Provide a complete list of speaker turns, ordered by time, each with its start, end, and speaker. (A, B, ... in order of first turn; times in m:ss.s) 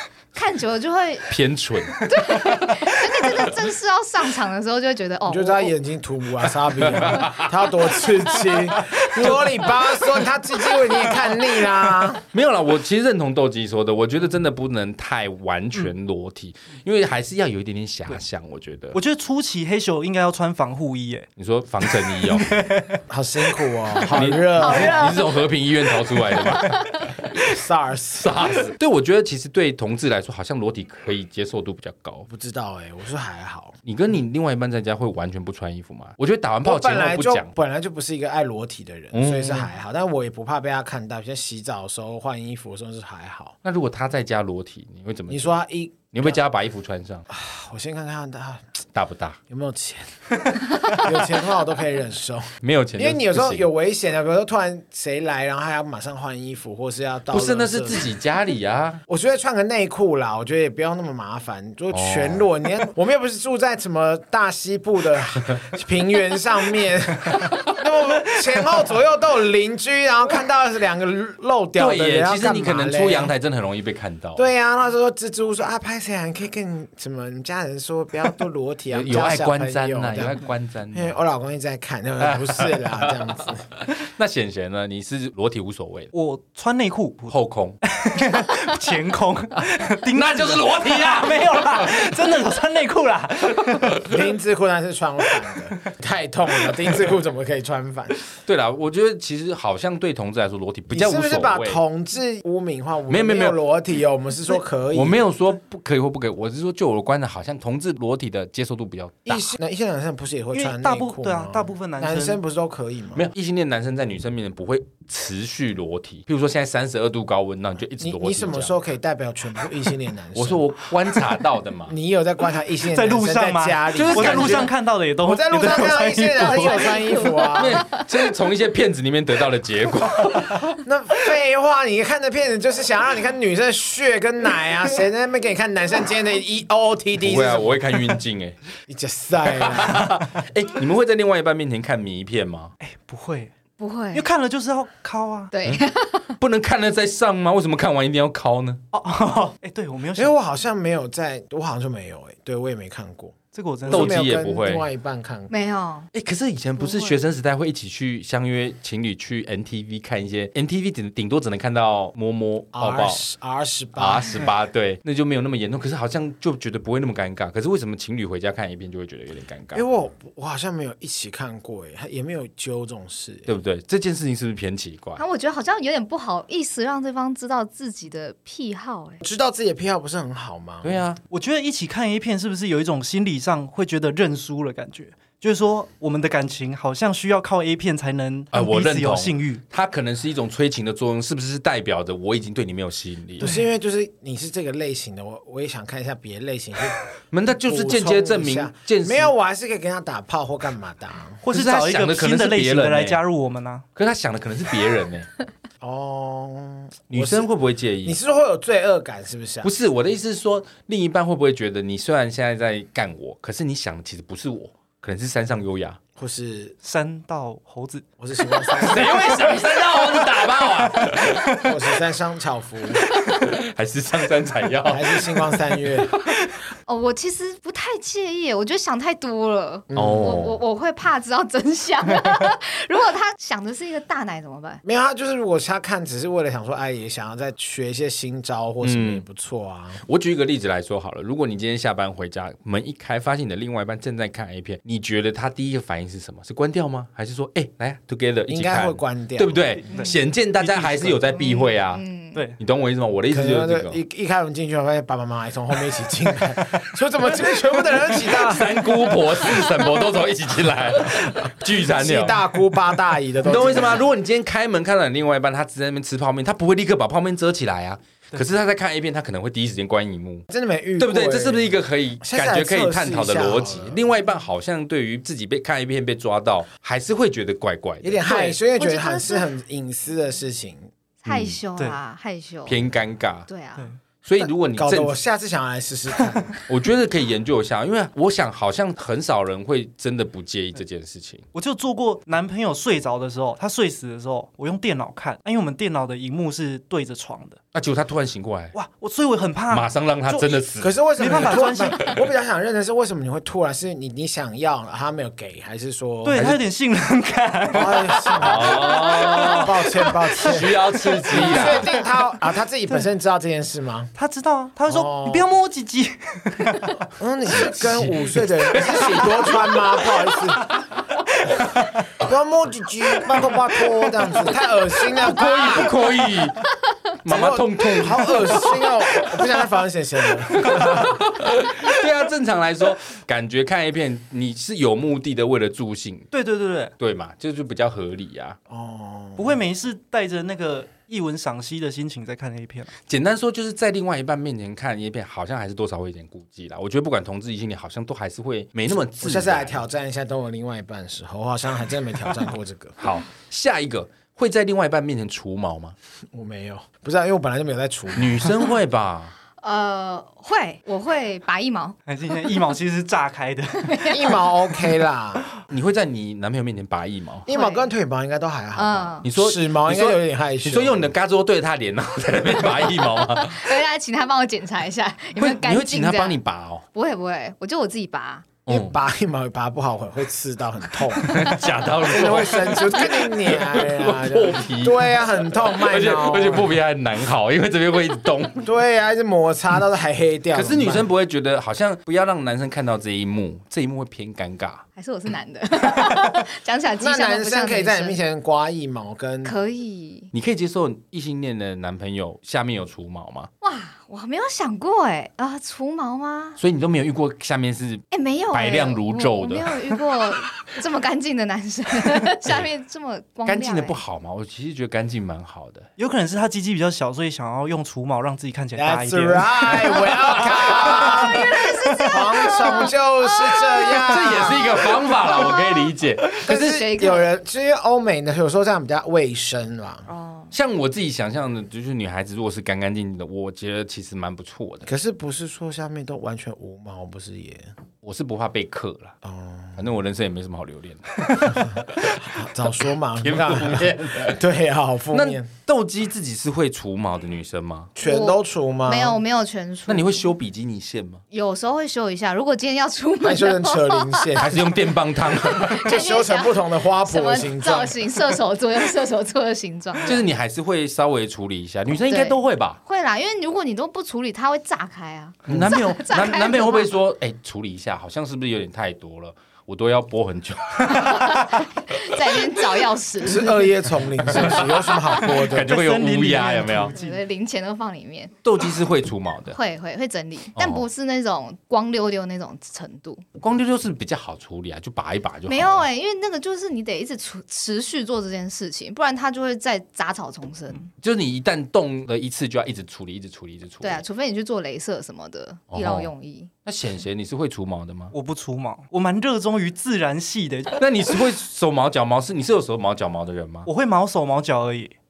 0:00.3-0:01.3 A
0:01.3-0:02.1 B
0:02.0-0:05.7 A
0:05.3-0:12.2 C
0:06.8-0:07.5 B
0:12.3-0:19.0 B
0:18.9-0:21.3 D
0:21.4-0:22.5 B
0:21.8-0:23.0 D
0:23.1-0:25.2 C
0:24.1-0:27.1 B
0:24.6-0:25.4 A
0:26.4-0:26.7 D
0:27.4-0:28.5 C
0:28.2-0:32.3 B
0:32.3-0:33.8 C
0:33.8-0:37.5 B
0:36.6-0:43.6 C
0:39.1-0:39.7 B
0:43.6-0:45.6 B
0:45.3-0:46.4 C
0:46.1-0:47.3 B
0:47.3-0:48.8 C
0:49.0-0:49.4 B
0:49.5-0:58.1 C
0:52.6-0:53.7 B
0:57.3-0:59.0 B
0:59.1-1:13.3 C
1:01.9-1:02.4 B
1:11.8-1:14.5 B
1:14.4-1:20.4 C
1:18.9-1:21.2 B
1:20.9-1:23.7 C
1:22.2-1:26.1 B
1:26.1-1:27.4 D
1:27.3-1:27.8 B
1:27.9-1:34.2 D
1:30.1-1:32.1 B
1:34.1-1:38.2 C
1:38.5-1:41.8 B
1:40.9-1:45.2 C
1:43.1-1:43.6 B
1:44.9-1:49.5 B
1:49.3-1:53.3 C
1:50.5-1:52.4 D
1:53.2-1:58.8 B
1:58.0-2:00.6 C
2:00.4-2:01.9 B
2:01.9-2:07.9 C
2:02.9-2:07.3 D
2:03.9-2:04.7 B
2:06.5-2:07.0 A
2:07.6-2:10.6 B
2:10.8-2:17.8 C
2:17.2-2:18.6 B
2:18.9-2:20.1 C
2:19.6-2:22.7 B
2:22.8-2:23.5 D
2:23.8-2:24.3 A
2:24.1-2:25.5 D
2:25.5-2:26.3 A
2:26.4-2:28.8 B
2:28.9-2:30.3 D
2:30.2-2:35.5 C
2:33.5-2:34.3 D
2:33.9-2:34.8 B
2:35.5-2:36.1 A
2:36.1-2:43.2 B
2:36.8-2:37.2 A
2:42.7-2:44.5 C
2:44.0-2:49.8 B
2:49.7-2:53.5 C
2:53.5-2:55.2 B
2:55.2-2:59.2 A
2:59.2-3:01.0 C
3:00.8-3:01.2 B
3:01.3-3:09.6 D
3:08.5-3:13.5 B
3:13.4-3:17.0 C
3:13.4-3:13.7 D
3:17.3-3:19.3 B
3:17.6-3:21.4 C
3:21.4-3:23.8 D
3:21.5-3:23.2 B
3:24.0-3:25.3 B
3:25.8-3:27.5 C
3:27.1-3:28.2 B
3:28.0-3:29.7 C
3:29.6-3:36.0 B
3:36.2-3:36.8 C
3:36.8-3:41.7 D
3:38.2-3:39.5 C
3:38.8-3:41.6 B
3:41.6-3:43.0 C
3:43.1-3:43.4 A
3:43.3-3:45.3 B
3:44.8-3:46.2 C
3:46.9-3:54.8 A
3:49.9-3:50.4 C
3:50.0-3:50.6 B
3:54.8-4:00.0 C
3:58.8-3:59.2 B
4:00.0-4:12.0 B
4:08.5-4:09.8 C
4:09.9-4:11.6 D
4:11.4-4:12.4 A
4:12.3-4:12.6 D
4:12.6-4:14.0 B
4:13.3-4:18.9 C
4:18.1-4:22.5 B
4:21.8-4:24.1 C
4:23.4-4:30.4 B
4:30.5-4:31.7 C
4:31.0-4:38.3 B
4:32.2-4:34.0 C
4:38.0-4:40.9 C
4:38.8-4:39.5 A
4:41.2-4:42.8 A
4:41.3-4:41.6 B
4:42.7-4:43.5 B
4:43.5-4:43.9 A
4:44.2-4:45.2 B
4:44.4-4:46.5 C
4:46.7-4:51.5 B
4:51.5-4:57.6 D
4:57.7-4:58.8 B
4:58.7-5:00.6 D
4:59.7-5:01.5 B
5:00.8-5:06.5 C
5:01.2-5:02.1 D
5:06.2-5:12.0 D
5:06.3-5:06.6 B
5:07.7-5:10.7 C
5:08.4-5:09.8 B
5:10.4-5:12.0 B
5:11.3-5:14.1 C
5:14.2-5:17.1 D
5:14.8-5:15.5 C
5:17.2-5:20.7 C
5:17.5-5:19.7 B
5:22.2-5:26.0 C
5:25.1-5:26.7 B
5:27.2-5:28.8 B
5:27.3-5:31.2 C
5:30.5-5:36.3 B
5:36.3-5:36.9 D
5:37.0-5:38.6 B
5:38.7-5:39.6 C
5:39.4-5:42.9 D
5:43.1-5:49.8 B
5:49.2-5:53.0 C
5:53.0-5:56.0 B
5:56.3-5:58.7 C
5:58.2-5:59.3 B
5:59.6-6:02.0 A
6:02.1-6:04.5 D
6:03.9-6:04.2 A
6:04.1-6:05.4 C
6:05.7-6:07.5 B
6:07.5-6:11.1 C
6:07.5-6:07.9 A
6:08.8-6:09.2 A
6:09.2-6:13.7 B
6:13.2-6:16.4 A
6:15.4-6:16.8 B
6:16.9-6:18.5 A
6:18.7-6:19.0 B
6:18.7-6:26.8 C
6:21.2-6:28.7 B
6:28.6-6:31.1 C
6:30.5-6:34.8 B
6:35.0-6:38.2 A
6:37.0-6:39.5 C
6:39.4-6:40.3 A
6:40.3-6:43.5 B
6:43.6-6:46.6 A
6:46.6-6:49.8 B
6:48.1-6:54.0 A
6:53.5-6:55.9 B
6:56.0-7:02.1 D
6:58.8-7:04.8 C
7:00.8-7:01.2 B
7:00.9-7:05.9 A
7:04.0-7:06.8 B
7:06.4-7:10.1 C
7:06.5-7:07.3 A
7:10.1-7:10.5 A
7:10.5-7:14.9 B
7:14.9-7:17.7 C
7:18.0-7:19.2 B
7:19.2-7:19.8 C
7:19.8-7:22.4 B
7:21.7-7:25.5 C
7:23.2-7:24.4 B
7:25.1-7:27.9 B
7:28.0-7:29.2 C
7:28.0-7:30.2 A
7:29.9-7:31.2 B
7:31.3-7:34.3 A
7:33.2-7:34.8 C
7:34.4-7:35.8 B
7:35.4-7:40.2 A
7:35.7-7:38.0 C
7:40.0-7:42.8 B
7:42.1-7:46.9 A
7:45.5-7:51.4 B
7:50.9-7:53.7 A
7:53.2-7:55.8 C
7:54.3-7:56.9 B
7:55.2-7:57.2 D
7:56.9-7:58.4 A
7:58.4-7:59.6 B
7:59.5-8:03.2 A
8:00.6-8:00.8 B
8:03.4-8:05.8 B
8:05.5-8:10.9 A
8:11.0-8:14.0 B
8:13.8-8:16.5 A
8:15.7-8:16.1 B
8:16.6-8:18.1 B
8:18.1-8:20.8 D
8:20.8-8:23.7 B
8:23.7-8:25.0 D